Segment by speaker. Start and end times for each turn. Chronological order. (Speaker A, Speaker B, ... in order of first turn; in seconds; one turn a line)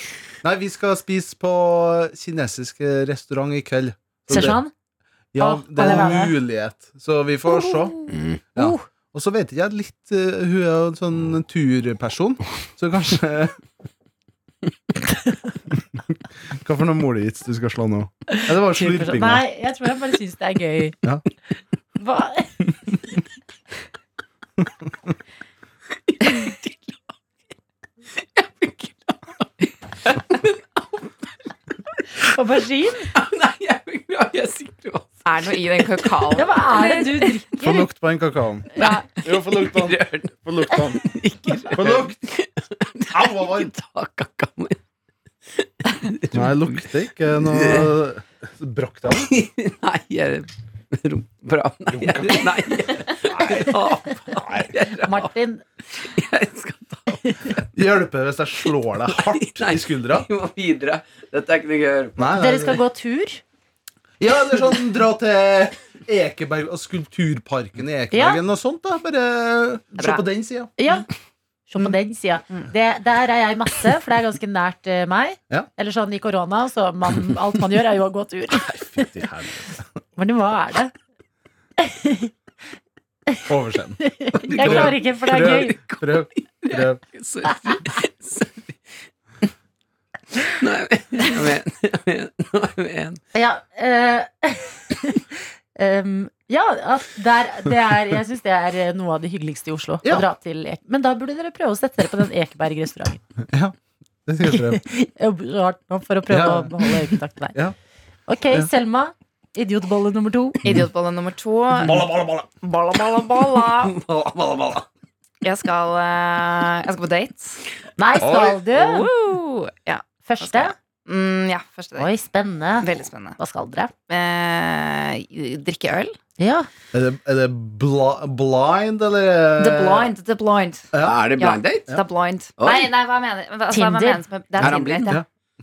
Speaker A: 0.4-4.6
Speaker B: 4.3-4.7
Speaker C: 4.3-4.5
Speaker A: 5.3-7.9
Speaker B: 5.4-6.4
Speaker B: 7.5-8.8
Speaker C: 8.1-8.4
Speaker A: 8.5-13.5
Speaker A: 16.5-19.4
Speaker B: 18.3-21.0
Speaker B: 21.9-22.6
Speaker C: 26.4-26.8
Speaker C: 28.4-29.4
Speaker B: 32.2-33.1
Speaker C: 33.1-35.2
Speaker D: 35.2-37.4
Speaker B: 36.3-37.8
Speaker A: 37.6-41.1
Speaker B: 38.8-39.0
Speaker C: 38.8-44.8
Speaker A: 41.7-42.2
Speaker A: 43.1-43.7
Speaker C: 45.6-46.8
Speaker A: 46.3-49.3
Speaker C: 47.4-47.9
Speaker C: 49.1-55.3
Speaker A: 51.9-52.5
Speaker A: 53.3-54.5
Speaker B: 55.0-55.6
Speaker C: 55.9-57.6
Speaker A: 57.7-60.3
Speaker C: 59.1-62.3
Speaker A: 62.2-62.8
Speaker B: 62.4-63.4
Speaker A: 64.2-70.7
Speaker B: 68.1-68.4
Speaker D: 70.0-70.2
Speaker B: 70.8-71.1
Speaker B: 71.7-79.1
Speaker A: 78.6-79.8
Speaker B: 80.2-80.9
Speaker B: 81.8-82.3
Speaker A: 83.4-87.0
Speaker B: 84.0-85.8
Speaker C: 84.4-88.8
Speaker C: 90.4-93.2
Speaker B: 93.3-103.2
Speaker A: 103.4-104.8
Speaker B: 104.5-107.5
Speaker A: 106.3-107.7
Speaker B: 108.3-110.7
Speaker D: 110.6-112.1
Speaker C: 111.8-112.5
Speaker D: 112.6-113.9
Speaker C: 113.8-114.8
Speaker D: 115.4-117.6
Speaker B: 118.0-119.1
Speaker A: 118.2-118.6
Speaker D: 118.7-122.1
Speaker B: 120.2-120.7
Speaker B: 122.0-123.9
Speaker D: 122.8-123.4
Speaker D: 124.1-126.1
Speaker B: 126.4-126.7
Speaker A: 126.9-130.1
Speaker D: 129.6-135.2
Speaker A: 130.9-131.2
Speaker C: 131.0-131.9
Speaker C: 132.6-132.9
Speaker B: 133.7-134.2
Speaker C: 134.6-135.2